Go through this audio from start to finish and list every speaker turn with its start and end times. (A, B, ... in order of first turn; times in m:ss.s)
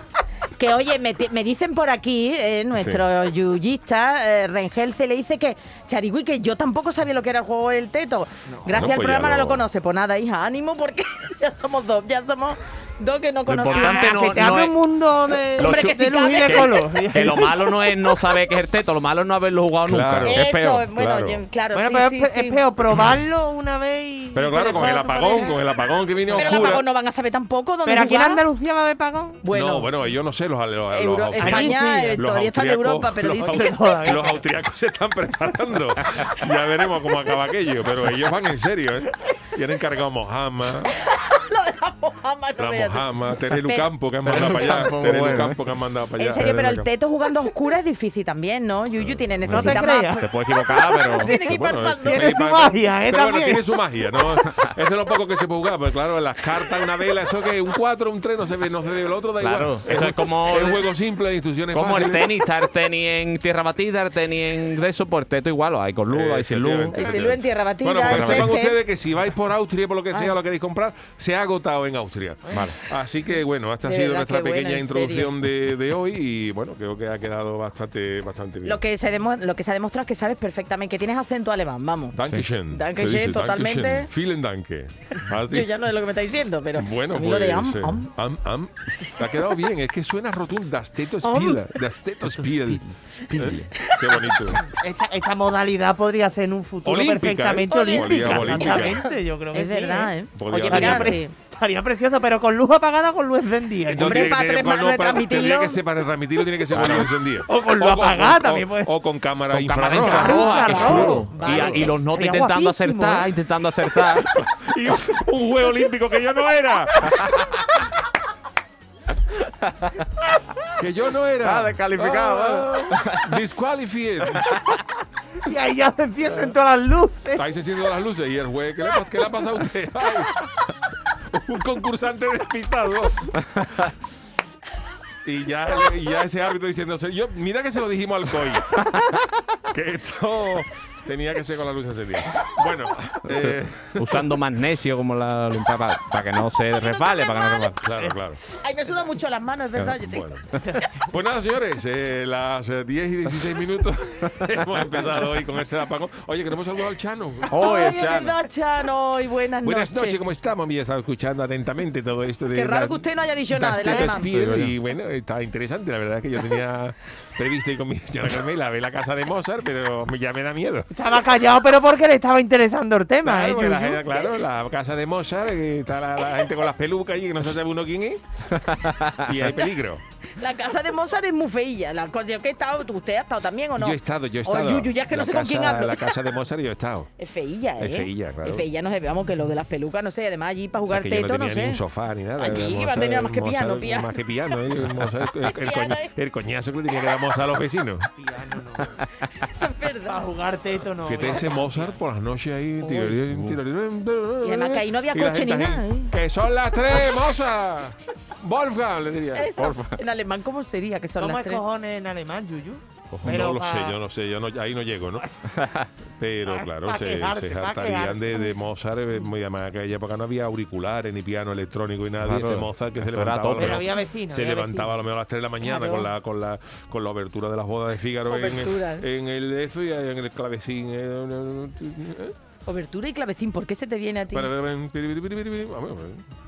0:00.5-0:14.6 A
0:02.7-0:03.0 B
0:08.5-0:08.9 C
0:08.7-0:09.6 B
0:13.5-0:14.8 D
0:13.7-0:17.8 C
0:15.5-0:17.0 A
0:15.6-0:20.8 D
0:19.8-0:21.4 B
0:20.2-0:22.6 A
0:21.7-0:26.8 C
0:24.3-0:26.8 B
0:24.7-0:25.4 A
0:26.3-0:28.4 A
0:27.8-0:29.4 C
0:29.4-0:30.1 A
0:29.5-0:40.9 B
0:30.9-0:33.9 A
0:31.4-0:32.2 C
0:33.4-0:34.4 C
0:40.9-0:43.9 A
0:42.6-0:46.9 B
0:44.2-0:45.6 D
0:46.2-0:52.3 A
0:49.0-0:49.8 B
0:49.5-0:50.3 C
0:50.1-0:51.3 D
0:51.2-1:02.3 B
0:52.0-0:53.6 C
0:59.4-1:00.8 D
1:01.7-1:07.2 D
1:06.1-1:18.8 B
1:06.9-1:08.8 A
1:08.1-1:08.5 D
1:12.5-1:12.7 C
1:13.8-1:15.3 A
1:18.6-1:22.2 A
1:22.1-1:25.7 B
1:22.7-1:24.1 A
1:25.4-1:28.1 A
1:26.7-1:34.6 B
1:31.2-1:31.6 A
1:33.9-1:34.2 A
1:34.7-1:40.1 C
1:36.8-1:39.0 B
1:37.7-1:41.3 A
1:40.3-1:41.2 B
1:40.6-1:44.3 C
1:43.9-1:51.9 B
1:44.0-1:45.8 A
1:46.8-1:48.9 C
1:49.5-1:54.3 D
1:50.0-1:53.3 C
1:50.2-1:51.1 A
1:54.3-1:57.7 B
2:00.8-2:04.6 B
2:01.4-2:03.2 D
2:05.4-2:07.4 C
2:07.4-2:10.4 B
2:11.3-2:13.3 B
2:15.2-2:18.9 B
2:19.6-2:24.4 B
2:23.3-2:27.8 D
2:26.7-2:27.8 A
2:27.8-2:28.4 B
2:28.5-2:30.9 A
2:29.8-2:30.5 B
2:31.1-2:37.6 B
2:37.5-2:38.3 D
2:37.5-2:40.2 A
2:39.6-2:50.9 B
2:42.5-2:44.3 A
2:43.9-2:44.2 C
2:44.3-2:44.7 D
2:50.9-2:54.0 C
2:53.2-2:58.2 B
2:58.7-2:59.1 D
2:59.1-3:00.0 B
3:00.4-3:06.0 A
3:03.8-3:07.1 B
3:07.2-3:11.8 A
3:07.8-3:08.7 B
3:10.9-3:18.1 B
3:12.4-3:14.2 A
3:15.4-3:16.1 A
3:18.2-3:18.9 C
3:19.4-3:20.2 A
3:20.0-3:22.0 C
3:21.0-3:29.8 B
3:22.8-3:23.2 A
3:23.3-3:23.6 D
3:24.4-3:26.1 A
3:29.3-3:31.6 A
3:31.2-3:34.0 C
3:33.1-3:33.4 D
3:33.2-3:35.3 B
3:35.6-3:35.9 D
3:36.2-3:52.3 B
3:36.4-3:38.5 C
3:42.2-3:43.8 D
3:43.5-3:44.9 C
3:45.6-3:46.1 A
3:48.3-3:49.1 A
3:52.6-3:54.5 A
3:54.3-3:56.2 B